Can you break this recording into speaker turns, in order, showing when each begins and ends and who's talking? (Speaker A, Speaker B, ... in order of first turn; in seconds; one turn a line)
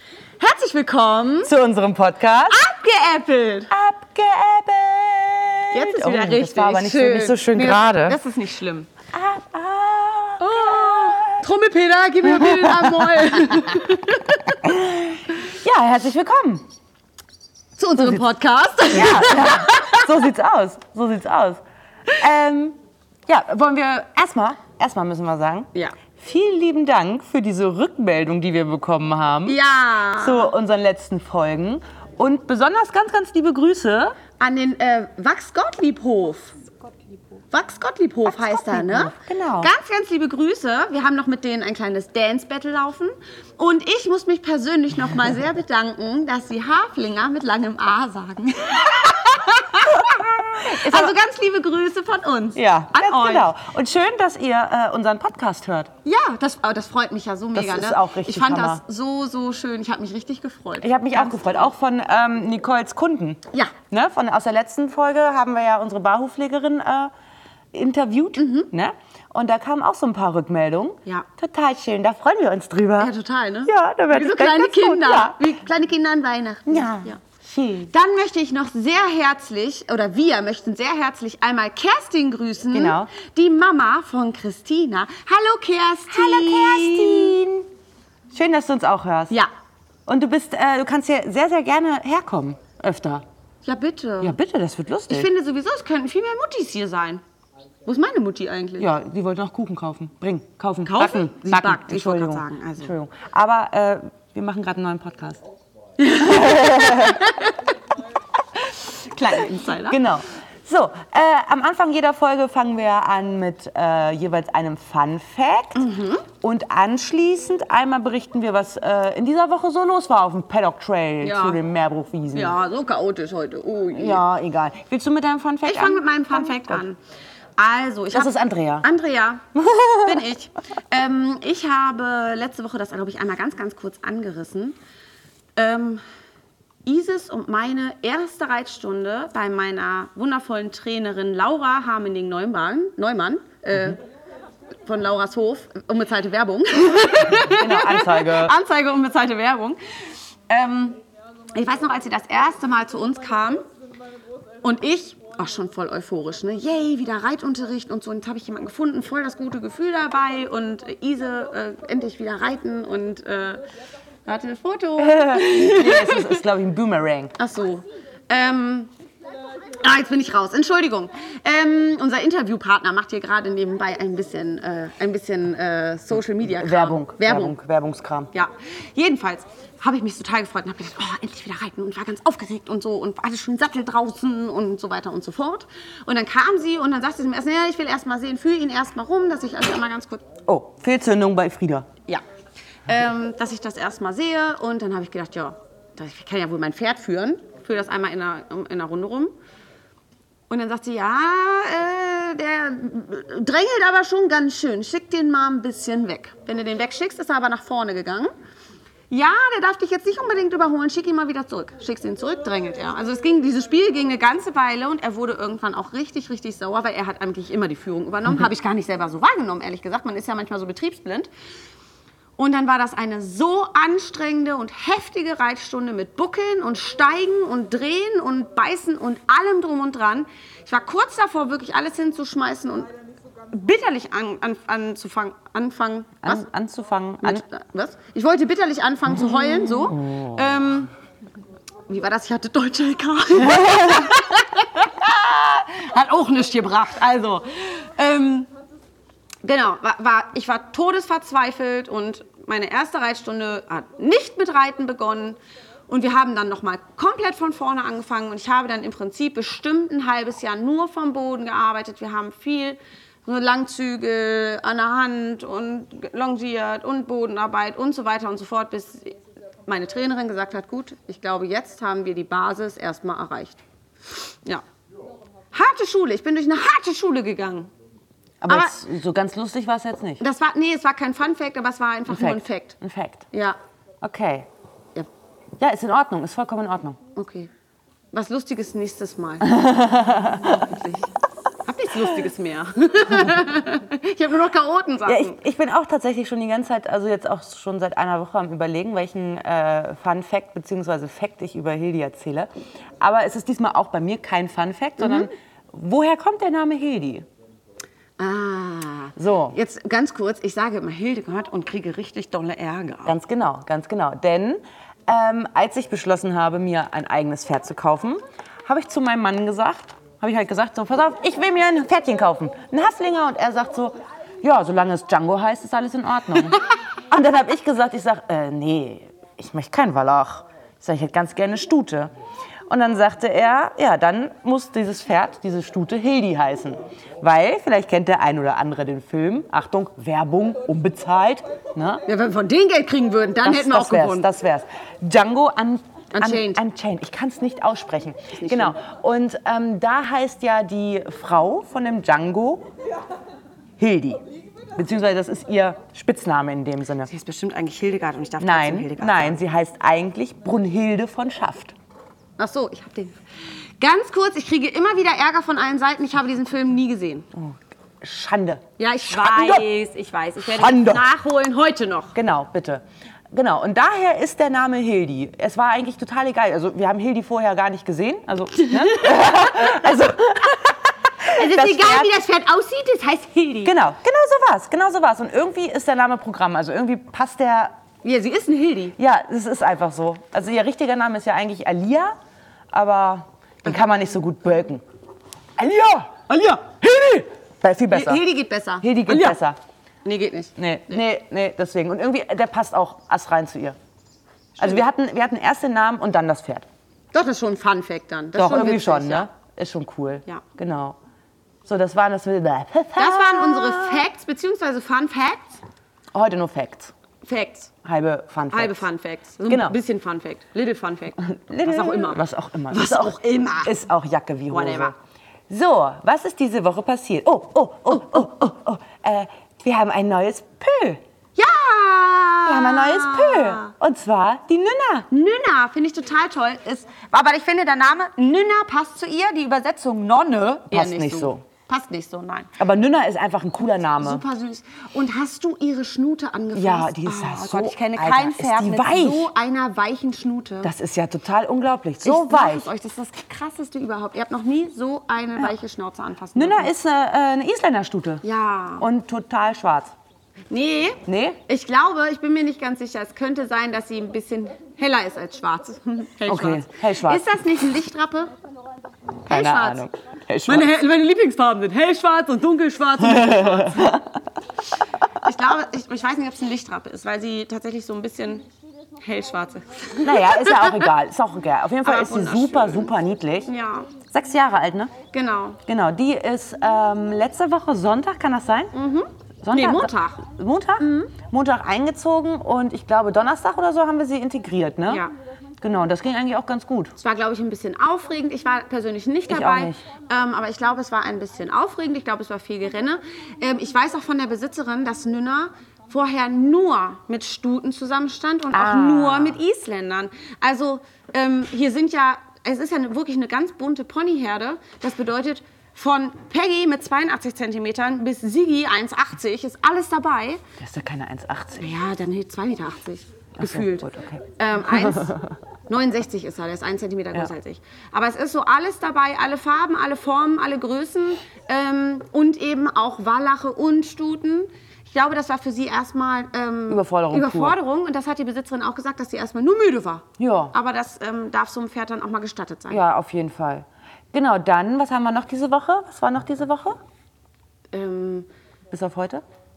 Speaker A: 0.4-1.5
Speaker B: 1.4-2.7
Speaker A: 2.5-3.7
Speaker B: 3.7-8.2
Speaker A: 5.7-8.9
Speaker B: 9.1-11.4
Speaker A: 10.4-14.5
Speaker B: 12.2-13.8
Speaker B: 14.6-16.6
Speaker A: 17.8-20.1
Speaker B: 18.0-18.2
Speaker B: 18.9-21.6
Speaker B: 22.2-29.6
Speaker A: 29.4-30.5
Speaker B: 30.1-34.2
Speaker A: 34.4-36.5
Speaker A: 37.5-53.5
Speaker B: 38.3-39.7
Speaker B: 49.9-51.1
Speaker B: 52.5-55.9
Speaker A: 56.0-61.7
Speaker B: 57.5-58.8
Speaker B: 60.8-67.1
Speaker B: 67.7-73.1
Speaker A: 68.4-68.7
Speaker A: 73.0-77.2
Speaker B: 73.7-75.5
Speaker B: 76.7-77.9
Speaker A: 77.9-87.3
Speaker B: 82.7-83.1
Speaker B: 86.1-87.7
Speaker B: 88.3-89.3
Speaker B: 90.1-93.2
Speaker A: 93.6-94.3
Speaker B: 94.2-95.3
Speaker A: 95.1-97.2
Speaker A: 97.8-98.9
Speaker B: 98.8-105.4
Speaker A: 100.8-102.9
Speaker A: 106.0-107.5
Speaker B: 106.0-107.2
Speaker A: 108.7-110.0
Speaker B: 109.3-122.6
Speaker A: 115.8-116.2
Speaker A: 121.2-121.6
Speaker A: 122.3-124.2
Speaker B: 123.9-126.8
Speaker A: 125.6-127.0
Speaker A: 127.6-129.4
Speaker B: 128.1-128.9
Speaker B: 129.5-130.2
Speaker A: 130.0-134.8
Speaker A: 135.6-136.0
Speaker A: 136.8-144.0
Speaker A: 144.8-149.8
Speaker B: 147.4-148.5
Speaker A: 150.5-151.0
Speaker A: 151.5-153.6
Speaker A: 154.6-163.6
Speaker A: 164.2-166.4
Speaker B: 165.0-167.3
Speaker A: 167.4-168.9
Speaker A: 169.8-177.5
Speaker B: 176.4-178.3
Speaker A: 178.3-190.2
Speaker B: 190.5-191.9
Speaker A: 192.9-199.3
Speaker A: 200.5-208.3
Speaker A: 209.1-221.3
Speaker A: 222.4-232.9
Speaker A: 233.5-236.5
Speaker B: 236.2-237.4
Speaker A: 237.2-240.9
Speaker B: 239.7-240.4
Speaker A: 241.9-248.5
Speaker B: 243.5-244.0
Speaker A: 249.4-274.6
Speaker A: 275.5-277.7
Speaker B: 278.4-280.2
Speaker A: 278.5-278.7
Speaker A: 280.2-282.8
Speaker B: 282.1-283.2
Speaker A: 283.3-283.6
Speaker B: 284.0-284.5
Speaker B: 285.6-287.0
Speaker A: 287.1-287.5
Speaker A: 288.1-289.6
Speaker B: 289.4-290.6
Speaker A: 290.2-291.1
Speaker A: 291.6-295.4
Speaker B: 295.1-302.5
Speaker B: 303.0-307.2
Speaker A: 305.0-305.3
Speaker A: 308.2-313.1
Speaker B: 309.2-309.6
Speaker B: 313.0-332.1
Speaker B: 332.7-342.0
Speaker A: 342.1-344.3
Speaker B: 343.4-352.7
Speaker A: 346.1-346.6
Speaker A: 348.4-348.7
Speaker B: 353.8-354.2
Speaker B: 354.8-357.1
Speaker A: 357.1-359.4
Speaker B: 358.4-361.7
Speaker A: 362.4-363.2
Speaker A: 363.8-367.3
Speaker B: 367.3-369.6
Speaker A: 368.8-372.1
Speaker B: 370.4-371.1
Speaker B: 372.1-382.1
Speaker A: 378.7-379.1
Speaker A: 381.3-383.8
Speaker B: 383.6-387.7
Speaker A: 388.0-388.9
Speaker B: 389.0-392.1
Speaker B: 392.7-394.8
Speaker B: 395.6-398.2
Speaker A: 396.3-396.7
Speaker A: 397.9-399.4
Speaker B: 398.8-399.6
Speaker A: 400.0-400.5
Speaker B: 400.6-403.8
Speaker B: 404.6-406.7
Speaker A: 407.1-409.3
Speaker B: 408.3-411.0
Speaker B: 411.6-414.0
Speaker A: 413.0-415.6
Speaker B: 416.1-416.9
Speaker A: 417.2-417.7
Speaker B: 417.8-418.8
Speaker A: 418.5-423.7
Speaker B: 419.5-419.8
Speaker B: 421.2-424.9
Speaker A: 424.5-424.9
Speaker B: 425.5-431.0
Speaker A: 431.4-433.7
Speaker B: 432.4-435.1
Speaker A: 435.1-442.5
Speaker B: 440.7-441.4
Speaker B: 442.6-444.2
Speaker A: 444.0-450.7
Speaker B: 446.5-449.3
Speaker B: 450.6-452.7
Speaker A: 452.0-456.7
Speaker B: 456.3-458.2
Speaker A: 458.2-458.9
Speaker B: 458.8-459.9
Speaker A: 460.5-468.3
Speaker B: 461.1-461.4
Speaker B: 466.2-467.2
Speaker A: 469.2-469.8
Speaker B: 469.3-470.7
Speaker A: 470.4-473.9
Speaker B: 473.0-474.2
Speaker A: 475.2-478.4
Speaker A: 479.0-480.9
Speaker B: 480.0-483.5
Speaker A: 481.8-482.9
Speaker A: 483.5-483.9
Speaker B: 484.0-484.9
Speaker A: 485.1-485.6
Speaker B: 485.6-488.7
Speaker A: 488.7-490.3
Speaker B: 489.4-495.0
Speaker A: 490.8-491.1
Speaker A: 494.9-495.1
Speaker B: 495.6-496.9
Speaker A: 497.0-520.4
Speaker B: 499.3-499.8
Speaker B: 508.5-509.4
Speaker B: 520.6-521.7
Speaker A: 521.6-542.8
Speaker B: 523.4-525.2
Speaker B: 536.7-537.6
Speaker B: 540.2-540.5
Speaker B: 542.7-546.8
Speaker A: 547.7-548.3
Speaker B: 548.7-549.2